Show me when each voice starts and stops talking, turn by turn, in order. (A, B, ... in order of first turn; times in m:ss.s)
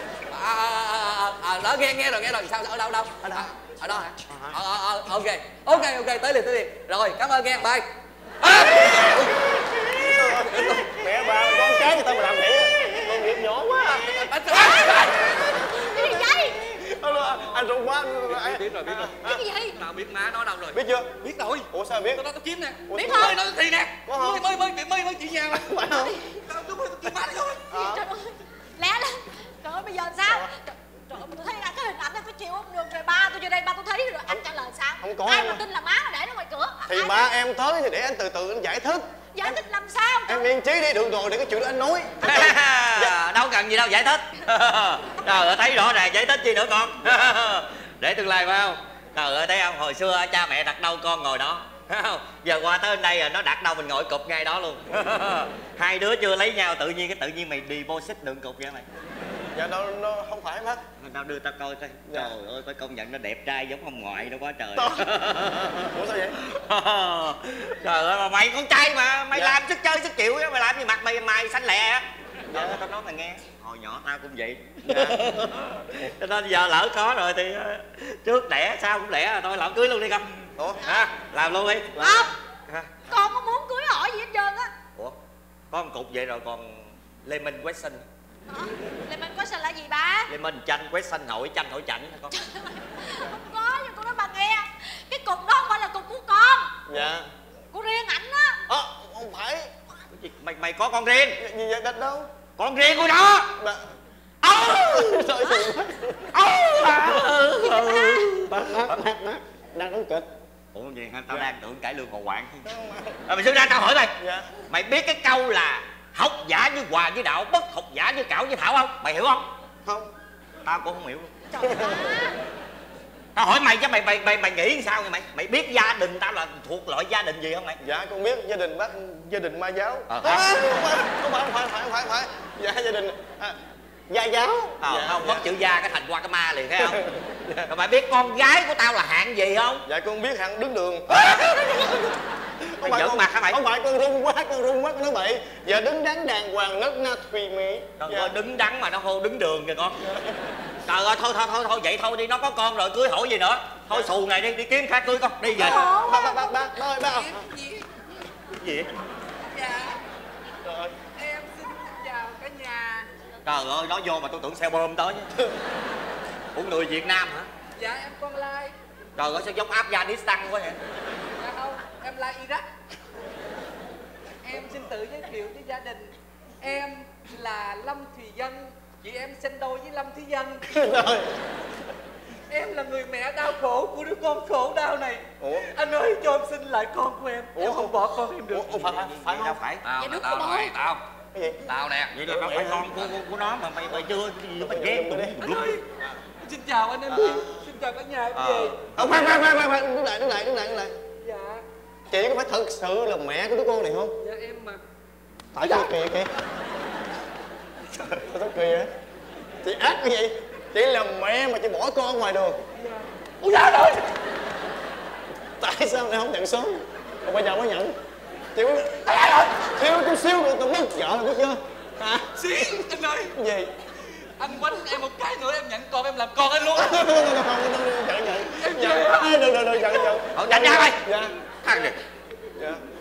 0:00.3-0:07.9 A
0:03.2-0:04.6 B
0:08.4-0:09.4 A
0:08.5-0:14.4 B
0:10.2-0:10.9 A
0:14.2-0:15.4 A
0:14.5-0:16.6 C
0:15.8-0:19.4 B
0:18.3-0:19.1 A
0:19.2-0:19.8 C
0:19.8-0:25.7 A
0:20.7-0:21.1 B
0:21.7-0:22.2 B
0:22.9-0:23.4 B
0:23.0-0:23.4 C
0:24.1-0:24.6 B
0:25.5-0:26.2 B
0:25.9-0:26.4 C
0:26.5-0:27.7 A
0:27.7-0:28.0 B
0:27.7-0:37.2 C
0:35.0-0:35.6 B
0:36.8-0:39.6 B
0:39.4-0:40.5 C
0:40.3-0:43.2 B
0:42.2-0:58.9 D
0:59.5-1:00.8 B
1:01.0-1:20.3 D
1:04.8-1:05.1 B
1:05.8-1:06.4 B
1:09.3-1:09.6 B
1:12.5-1:12.8 B
1:14.9-1:15.4 B
1:20.6-1:20.8 B
1:20.8-1:22.0 D
1:22.0-1:22.3 B
1:22.0-1:22.3 C
1:23.1-1:24.7 C
1:25.7-1:28.0 D
1:28.5-1:30.3 C
1:30.3-1:32.3 D
1:32.3-1:36.8 C
1:36.9-1:37.3 B
1:36.9-1:37.2 D
1:37.7-1:38.6 C
1:38.7-1:39.7 B
1:40.1-1:41.4 D
1:41.4-1:42.3 B
1:42.6-1:43.6 D
1:43.5-1:43.8 B
1:44.4-1:45.4 D
1:44.5-1:47.4 B
1:46.3-1:49.0 D
1:47.6-1:48.3 C
1:48.4-1:50.3 B
1:50.7-1:52.7 D
1:52.6-1:53.2 B
1:53.3-1:59.5 D
1:54.2-1:54.5 B
1:59.8-2:00.1 B
2:00.6-2:01.3 D
2:01.5-2:02.4 C
2:01.6-2:02.2 B
2:03.4-2:07.8 D
2:07.8-2:15.5 B
2:10.1-2:10.7 D
2:14.8-2:17.0 D
2:16.8-2:17.7 B
2:17.7-2:19.8 D
2:19.9-2:22.2 B
2:21.1-2:21.6 D
2:22.7-2:28.4 B
2:22.8-2:23.6 D
2:28.0-2:30.0 D
2:30.0-2:30.4 B
2:30.9-2:35.8 D
2:35.6-2:36.3 A
2:35.6-2:36.7 C
2:35.9-2:37.4 B
2:36.9-2:37.9 A
2:38.6-2:38.9 D
2:39.4-2:40.0 A
2:40.6-2:41.0 B
2:41.2-2:43.1 A
2:43.4-2:45.3 D
2:46.5-2:47.5 D
2:47.8-2:48.7 A
2:49.2-2:50.8 D
2:51.3-2:52.7 A
2:54.4-3:00.6 A
3:00.7-3:01.3 B
3:02.5-3:08.8 A
3:05.4-3:05.7 B
3:07.6-3:09.6 B
3:08.7-3:09.8 D
3:09.8-3:11.0 A
3:10.0-3:10.7 C
3:11.3-3:11.6 B
3:11.7-3:12.2 A
3:12.1-3:15.8 D
3:12.2-3:13.0 B
3:14.6-3:15.4 B
3:15.4-3:15.8 A
3:16.4-3:18.9 A
3:17.1-3:17.5 B
3:18.4-3:19.4 D
3:19.0-3:21.0 B
3:21.2-3:21.6 A
3:22.1-3:24.2 B
3:24.2-3:24.8 A
3:25.5-3:26.3 B
3:25.6-3:25.9 A
3:28.2-3:28.9 B
3:29.6-3:32.6 B
3:32.8-3:34.1 A
3:35.6-3:38.0 B
3:38.6-3:42.8 B
3:39.1-3:39.6 A
3:42.4-3:43.4 A
3:43.4-3:43.7 B
3:44.4-3:47.0 A
3:46.7-3:51.4 B
3:48.4-3:49.5 A
3:50.3-3:51.0 D
3:51.6-3:52.0 D
3:52.6-3:52.8 B